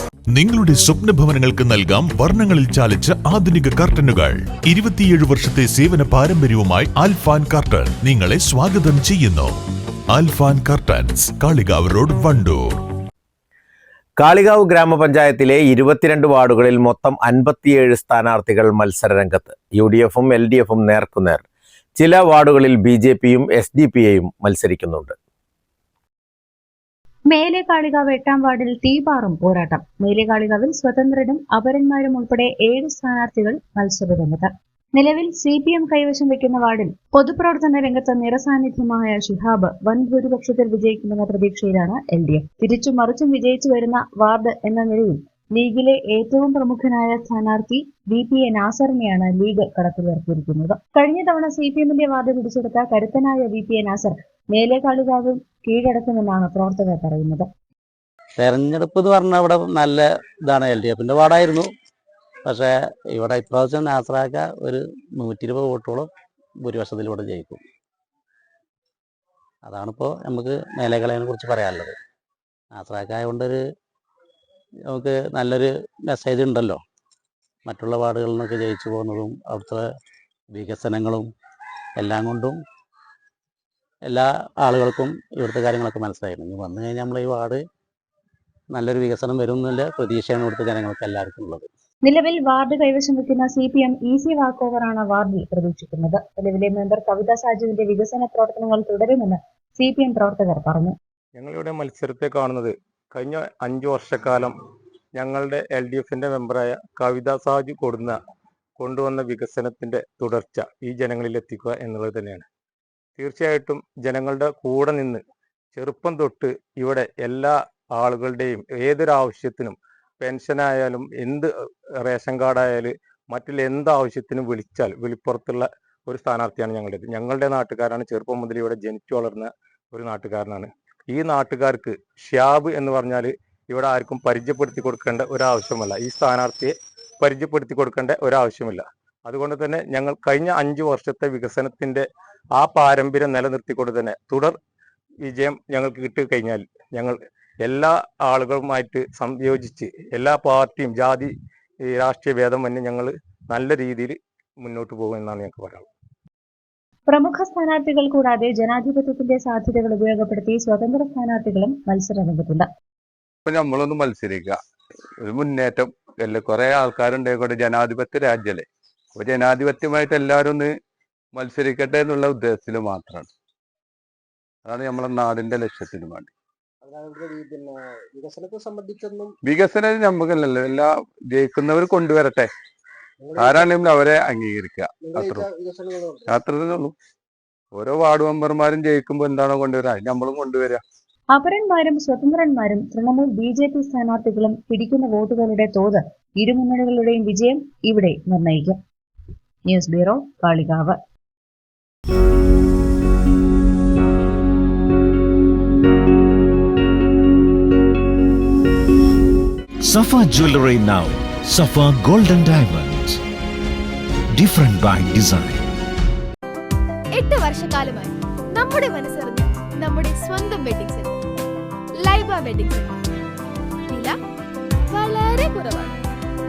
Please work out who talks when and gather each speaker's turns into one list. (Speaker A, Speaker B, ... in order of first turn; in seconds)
Speaker A: 0.3-9.6, 10.1-12.8
Speaker B: 14.2-21.4, 22.0-25.1
Speaker C: 27.3-57.5, 92.0-100.9, 157.1-162.7, 191.3-198.8, 199.7-201.0
Speaker D: 58.4-61.7, 62.4-66.1, 66.6-67.6, 69.6-72.0, 72.7-73.6, 74.9-76.8, 77.7-79.8, 80.5-81.3, 82.0-82.6, 84.1-87.6, 88.7-91.7
Speaker E: 101.4-104.5, 105.2-108.2, 108.8-112.4, 113.2-115.2, 115.8-121.5, 122.0-142.0, 142.6-144.6, 145.2-151.3, 151.9-155.9
Speaker F: 163.4-164.6, 165.2-170.7, 171.3-173.3, 174.6-176.3, 179.4-182.5, 183.4-185.4, 186.3-186.9, 187.7-190.8
Speaker G: 176.8-179.3, 183.2-183.7, 185.0-186.3
Speaker H: 209.8-213.2, 214.3-215.6
Speaker I: 217.1-221.1, 222.0-223.0, 223.9-224.2, 224.9-226.0